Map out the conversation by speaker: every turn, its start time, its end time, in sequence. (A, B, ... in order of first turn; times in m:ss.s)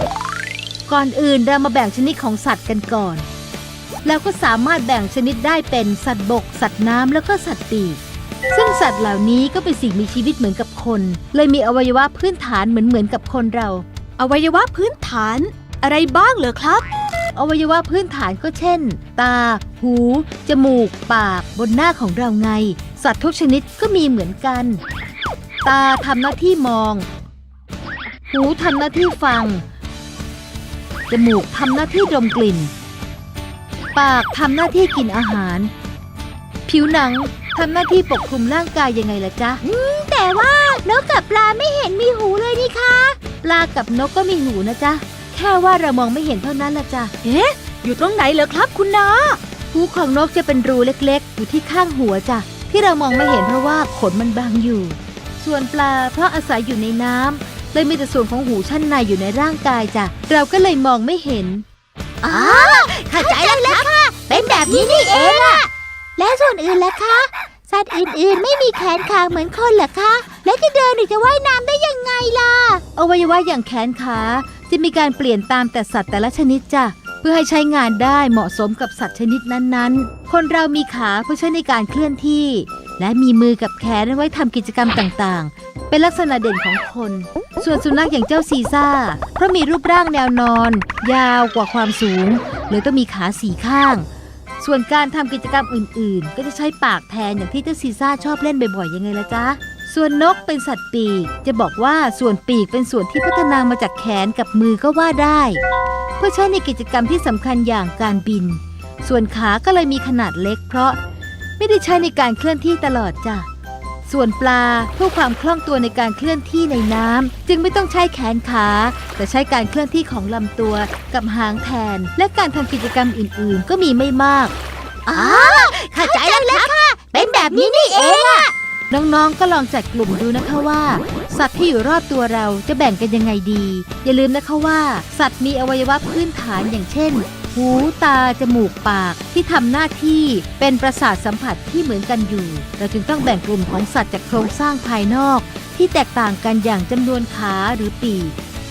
0:00.9-0:03.2 A
0:04.0-0:08.0 A
0:08.5-0:13.8 A
0:14.2-0:16.8 B
0:17.3-0:24.8 A
0:25.6-0:27.0 A
0:28.3-0:29.6 A
0:31.1-0:32.7 A
0:33.9-0:35.7 A
0:36.7-0:39.6 A
0:39.6-0:43.2 C
0:43.4-0:47.1 A
0:47.2-0:49.4 B
0:49.7-1:01.6 A
1:02.2-1:12.8 C
1:04.3-1:05.6 A
1:12.9-1:34.0 A
1:34.6-1:45.6 A
1:46.2-1:51.0 A
1:51.6-1:53.5 A
1:54.0-2:04.5 A
2:05.1-2:08.5 C
2:05.1-2:28.3 A